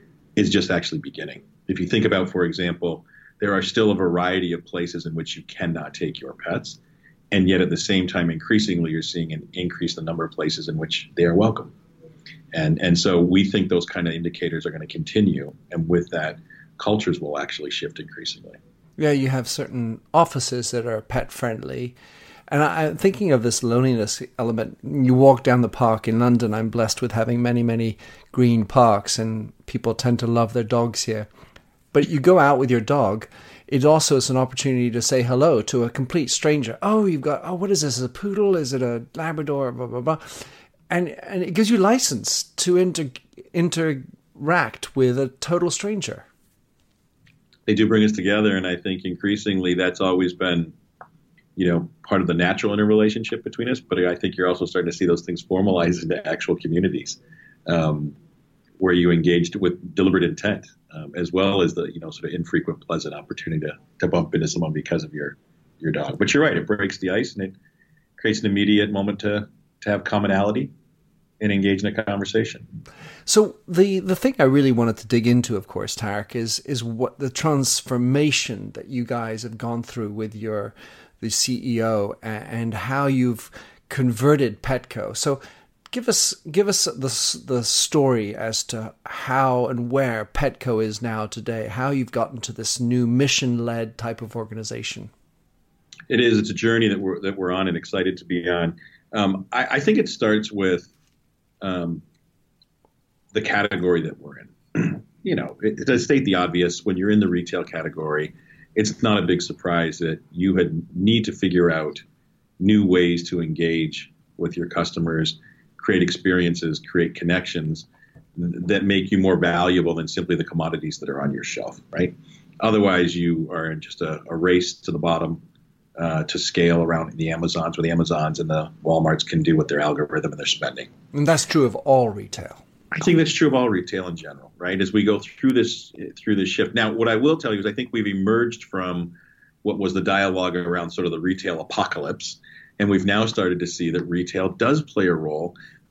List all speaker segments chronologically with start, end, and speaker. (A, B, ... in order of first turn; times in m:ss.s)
0:00.4-0:06.8 A
0:07.3-0:11.7 A
0:12.5-0:18.6 A
0:19.0-0:22.0 B
0:22.5-0:31.3 B
0:31.9-0:46.3 B
0:47.7-0:50.8 A
0:51.6-0:58.2 A
0:58.8-1:07.5 A
1:08.2-1:10.7 A
1:11.4-1:12.6 A
1:13.3-1:25.4 B
1:25.9-1:35.1 B
1:36.1-1:40.9 A
1:41.6-1:42.0 A
1:43.3-1:52.0 A
1:52.6-2:05.4 A
2:06.0-2:10.9 A
2:11.1-2:12.6 B
2:12.9-2:25.6 A